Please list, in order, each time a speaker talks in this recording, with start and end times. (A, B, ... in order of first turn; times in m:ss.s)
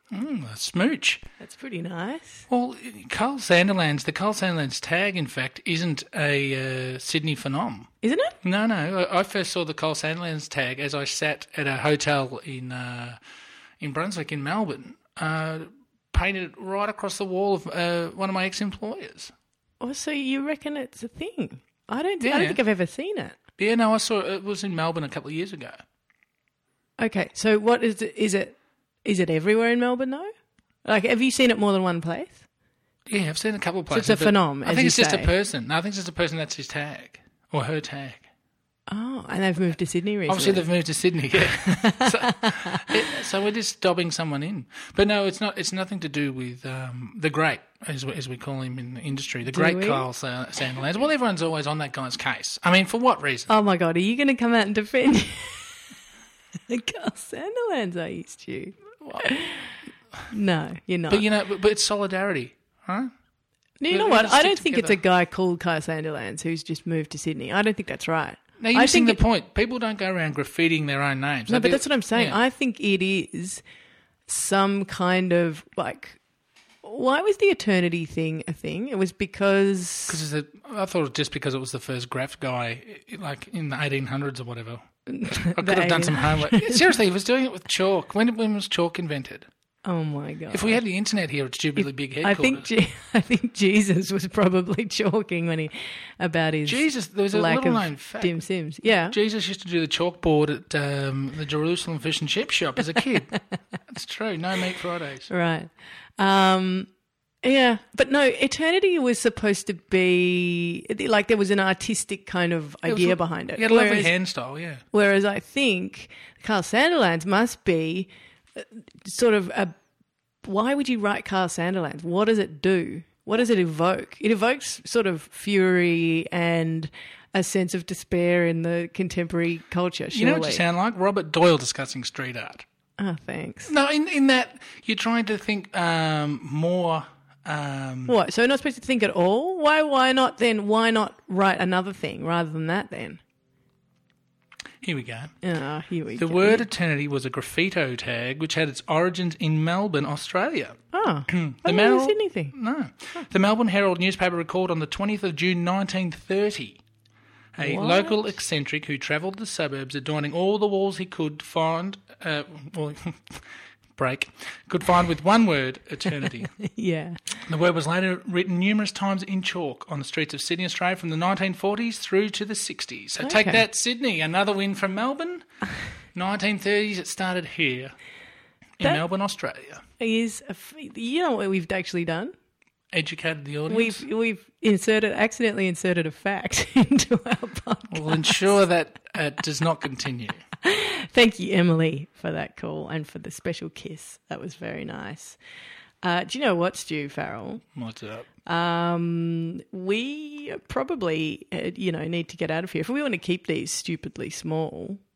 0:00.1-0:01.2 A
0:01.4-0:02.4 B
0:02.5-0:07.9 A
0:08.0-0:08.3 B
0:08.4-0:13.2 A
0:13.8-0:19.3 A
0:19.8-0:23.4 B
0:22.2-0:22.6 A
0:23.6-0:25.8 A
0:27.0-0:30.3 B
0:30.8-0:32.4 B
0:33.1-0:38.2 A
0:33.9-0:35.3 B
0:38.9-0:40.6 B
0:40.3-0:53.5 A
0:41.4-0:42.8 B
0:49.5-0:50.0 B
0:53.5-0:55.9 B
0:56.7-0:59.7 B
1:00.3-1:01.2 B
1:01.1-1:03.1 A
1:03.8-1:09.2 B
1:03.9-1:05.0 A
1:08.6-1:12.4 A
1:11.5-1:13.6 B
1:14.3-1:16.2 B
1:16.8-1:20.2 B
1:20.1-1:24.8 A
1:25.1-1:26.9 B
1:25.5-1:29.5 A
1:29.8-1:30.8 B
1:30.5-1:32.7 A
1:32.2-1:39.2 B
1:36.6-1:38.4 A
1:39.1-1:43.3 A
1:43.9-1:45.3 A
1:45.3-1:46.9 B
1:47.4-1:54.1 B
1:52.9-1:54.8 A
1:54.9-1:59.7 B
2:00.4-2:10.6 B
2:10.1-2:12.6 A
2:13.0-2:13.7 B
2:13.7-2:18.1 A
2:18.1-2:23.2 B
2:24.8-2:25.3 A
2:25.4-2:26.6 B
2:26.2-2:36.8 A
2:30.9-2:32.5 B
2:37.6-2:46.5 A
2:37.6-2:38.3 B
2:46.2-2:47.4 B
2:47.5-2:55.4 A
2:53.2-2:53.6 B
2:56.1-2:58.0 A
2:58.8-2:59.8 A
3:00.0-3:02.3 B
3:02.9-3:04.0 A
3:03.7-3:08.6 B
3:07.9-3:10.4 A
3:10.6-3:15.4 B
3:16.0-3:17.6 B
3:17.7-3:18.3 A
3:18.4-3:25.0 B